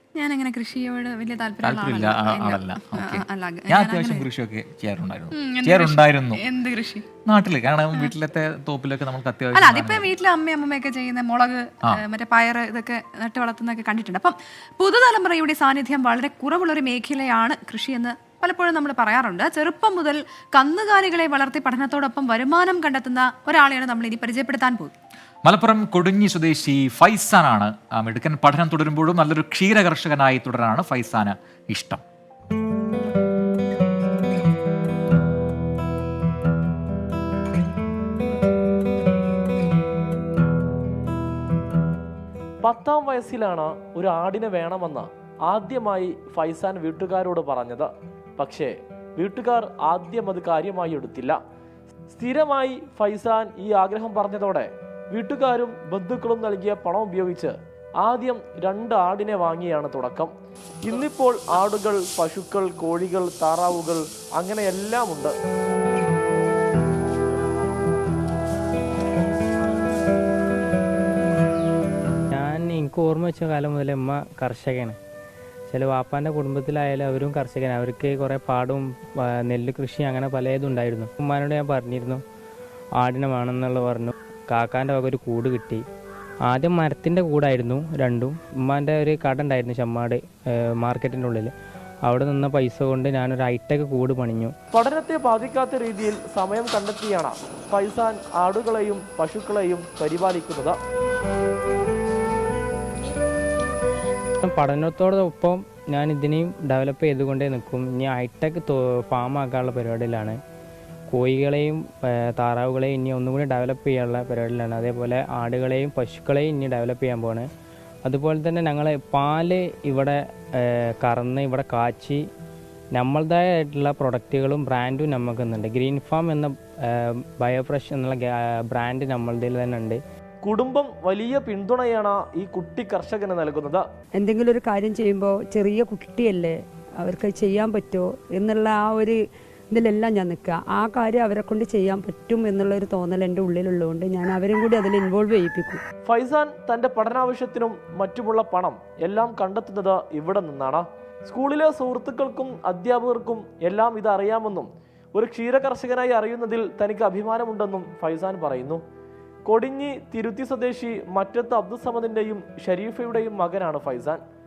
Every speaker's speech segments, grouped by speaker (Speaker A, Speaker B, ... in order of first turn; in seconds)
Speaker A: 0.2-4.3, 5.3-7.1, 9.5-24.9
Speaker B: 1.6-6.4, 7.2-10.1, 25.4-32.0
Speaker C: 42.6-51.4, 52.1-60.3, 60.8-65.3, 94.7-100.8, 130.4-133.8, 146.1-158.8, 159.5-164.2
Speaker D: 72.3-75.0, 75.7-82.2, 83.0-85.8, 86.5-91.5, 92.0-94.5, 104.4-110.4, 111.1-117.5, 118.0-122.2, 123.0-130.0
Speaker E: 134.2-139.2, 139.7-145.8